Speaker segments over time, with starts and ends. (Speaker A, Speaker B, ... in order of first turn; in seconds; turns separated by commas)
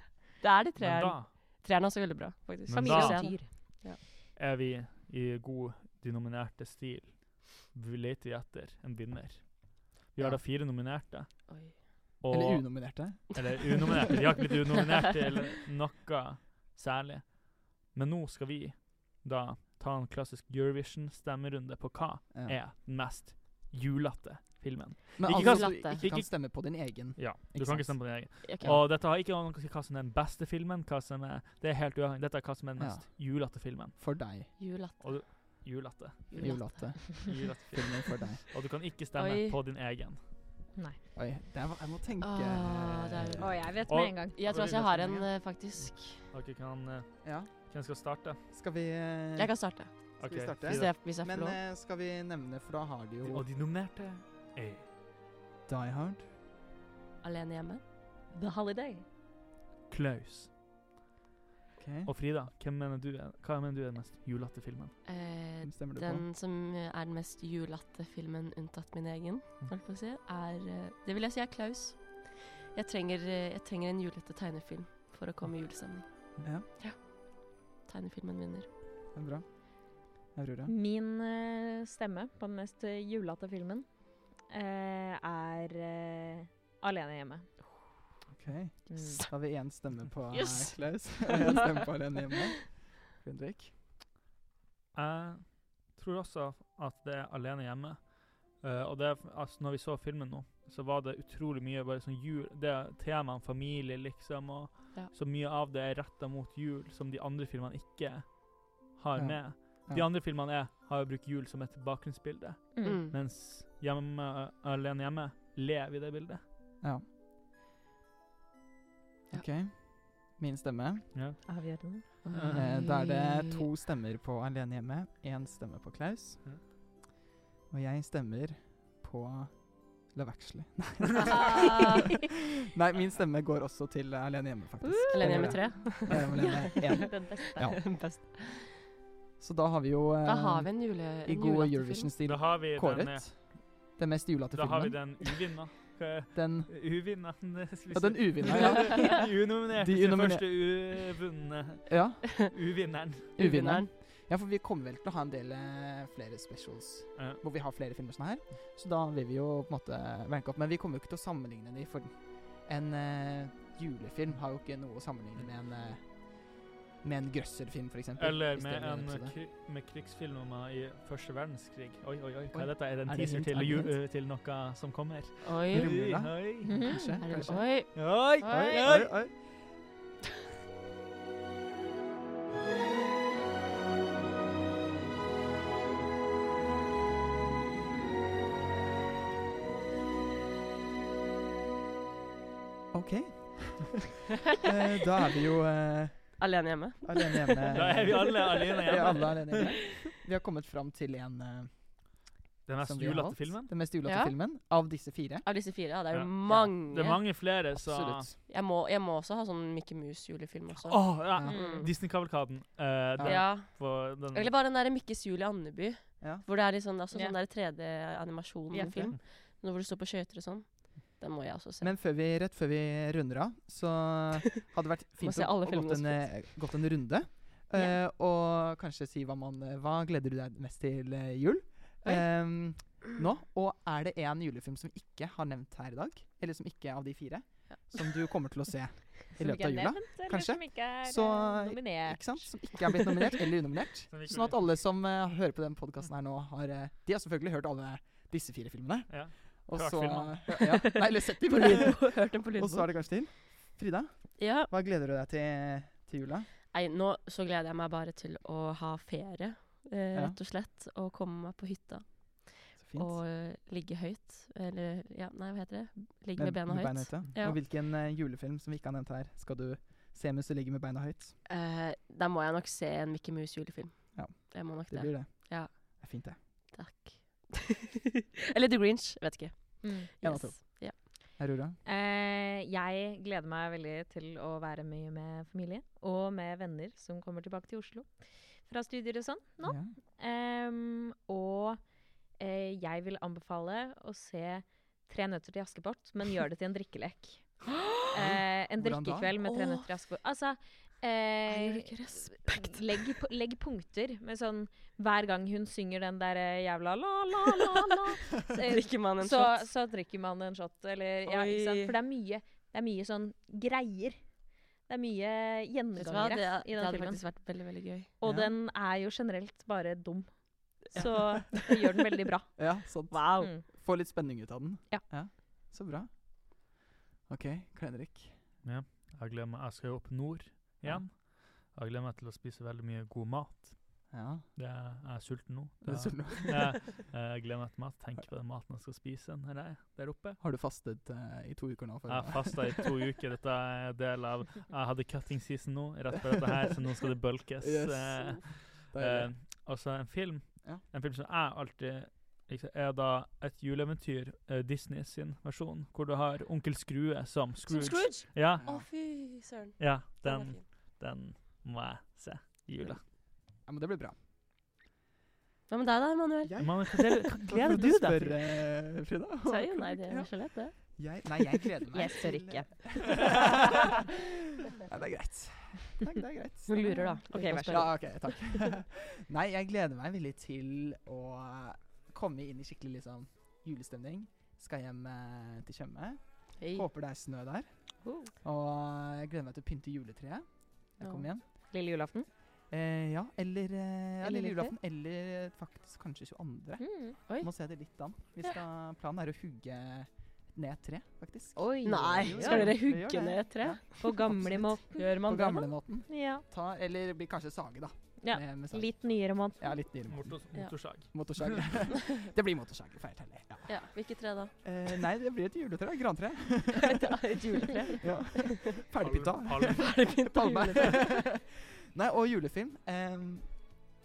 Speaker A: 0.4-4.0, Speaker B: 0.8-1.3, Speaker C: 2.6-3.5, Speaker B: 2.7-34.0, Speaker A: 11.5-11.8, Speaker D: 12.3-14.1, Speaker D: 22.3-22.6, Speaker D: 25.2-28.9, Speaker A: 25.3-26.1, Speaker A: 28.4-28.8, Speaker D: 32.8-34.5, Speaker A: 34.6-35.6, Speaker B: 35.0-36.8, Speaker A: 36.3-37.0, Speaker D: 36.4-38.4, Speaker B: 37.3-40.3, Speaker A: 39.2-39.6, Speaker D: 41.1-43.8, Speaker A: 42.2-43.8, Speaker C: 43.4-44.4, Speaker B: 43.9-45.4, Speaker A: 44.4-46.2, Speaker B: 46.0-48.4, Speaker D: 47.2-47.5, Speaker D: 48.5-53.5, Speaker A: 49.4-51.6, Speaker B: 50.2-51.0, Speaker B: 53.3-54.9, Speaker D: 55.7-56.3, Speaker A: 57.2-57.8, Speaker C: 58.3-59.0, Speaker B: 59.9-60.5, Speaker D: 61.8-62.1, Speaker B: 62.1-65.0, Speaker A: 65.0-78.7, Speaker D: 65.6-66.3, Speaker D: 79.1-80.7, Speaker C: 80.7-87.5, Speaker D: 88.3-93.8, Speaker C: 88.9-89.2, Speaker A: 89.0-89.3, Speaker A: 90.3-91.8, Speaker B: 94.9-116.4, Speaker D: 109.2-110.1, Speaker C: 112.8-113.1, Speaker A: 112.8-113.1, Speaker D: 119.3-121.1, Speaker B: 121.1-121.4, Speaker C: 121.5-122.1, Speaker B: 122.1-122.7, Speaker A: 122.2-123.7, Speaker D: 122.5-126.5, Speaker D: 127.7-137.8, Speaker A: 131.2-132.0, Speaker C: 131.2-132.2, Speaker C: 134.8-135.8, Speaker A: 135.1-138.7, Speaker C: 136.6-137.6, Speaker D: 139.4-145.2, Speaker A: 140.2-142.1, Speaker B: 142.2-143.9, Speaker B: 144.5-153.3, Speaker D: 146.3-147.2, Speaker D: 147.9-150.5, Speaker D: 151.9-152.5, Speaker A: 153.4-153.9, Speaker D: 153.4-169.4, Speaker B: 157.2-157.4, Speaker B: 168.2-177.1, Speaker D: 172.5-174.0, Speaker A: 175.4-176.0, Speaker D: 175.7-179.4, Speaker C: 176.7-177.5, Speaker A: 177.2-178.9, Speaker B: 177.9-179.2, Speaker D: 192.9-194.1, Speaker D: 194.6-202.3, Speaker A: 196.4-199.3, Speaker B: 197.7-199.8, Speaker B: 202.7-203.7, Speaker D: 202.8-205.5, Speaker A: 204.0-204.4, Speaker A: 205.4-207.2, Speaker B: 206.1-208.3, Speaker D: 207.2-208.4, Speaker A: 208.5-211.9, Speaker B: 210.8-214.5, Speaker D: 211.3-211.8, Speaker D: 213.2-213.5, Speaker A: 213.2-221.9, Speaker D: 216.2-216.4, Speaker C: 218.7-219.2, Speaker D: 221.8-256.5, Speaker A: 225.2-226.6, Speaker C: 239.4-242.4, Speaker B: 244.1-244.6, Speaker B: 249.1-250.7, Speaker A: 250.6-252.9, Speaker A: 254.4-254.7, Speaker A: 256.7-267.6, Speaker D: 260.1-260.4, Speaker D: 262.8-263.2, Speaker D: 266.4-271.4, Speaker A: 271.5-276.0, Speaker D: 274.1-276.4, Speaker A: 276.7-277.9, Speaker A: 278.5-281.0, Speaker C: 279.8-280.1, Speaker D: 280.2-281.8, Speaker C: 281.9-291.8, Speaker D: 289.6-289.9, Speaker C: 292.4-314.2, Speaker D: 298.1-299.3, Speaker A: 299.4-299.9, Speaker A: 301.5-303.0, Speaker A: 308.7-309.7, Speaker A: 311.3-312.0, Speaker C: 314.9-317.3, Speaker A: 316.0-318.1, Speaker C: 318.2-323.7, Speaker D: 318.2-318.5, Speaker A: 320.9-321.8, Speaker D: 322.6-326.7, Speaker A: 323.1-323.5, Speaker D: 327.3-328.4, Speaker B: 328.6-340.4, Speaker D: 334.1-334.5, Speaker D: 335.8-336.9, Speaker D: 340.4-343.0, Speaker B: 342.1-358.6, Speaker D: 346.4-346.7, Speaker D: 347.6-349.3, Speaker A: 357.7-360.6, Speaker D: 358.5-358.9, Speaker B: 359.8-363.0, Speaker D: 363.6-364.1, Speaker A: 365.7-366.6, Speaker D: 366.4-387.8, Speaker B: 366.6-368.0, Speaker C: 367.7-368.3, Speaker A: 369.4-371.0, Speaker C: 371.9-373.6, Speaker A: 376.7-378.3, Speaker C: 377.3-377.9, Speaker A: 386.6-386.9, Speaker C: 388.0-388.3, Speaker D: 388.4-391.5, Speaker A: 391.0-391.3, Speaker C: 391.6-392.3, Speaker D: 392.7-408.9, Speaker C: 396.8-397.2, Speaker C: 401.6-402.8, Speaker A: 401.8-404.0, Speaker C: 404.0-405.1, Speaker A: 405.0-405.7, Speaker C: 406.1-406.4, Speaker C: 408.2-409.8, Speaker D: 409.6-413.8, Speaker B: 410.1-411.7, Speaker A: 413.7-414.5, Speaker D: 414.6-423.5, Speaker A: 416.8-418.0, Speaker B: 419.0-420.0, Speaker A: 419.6-421.1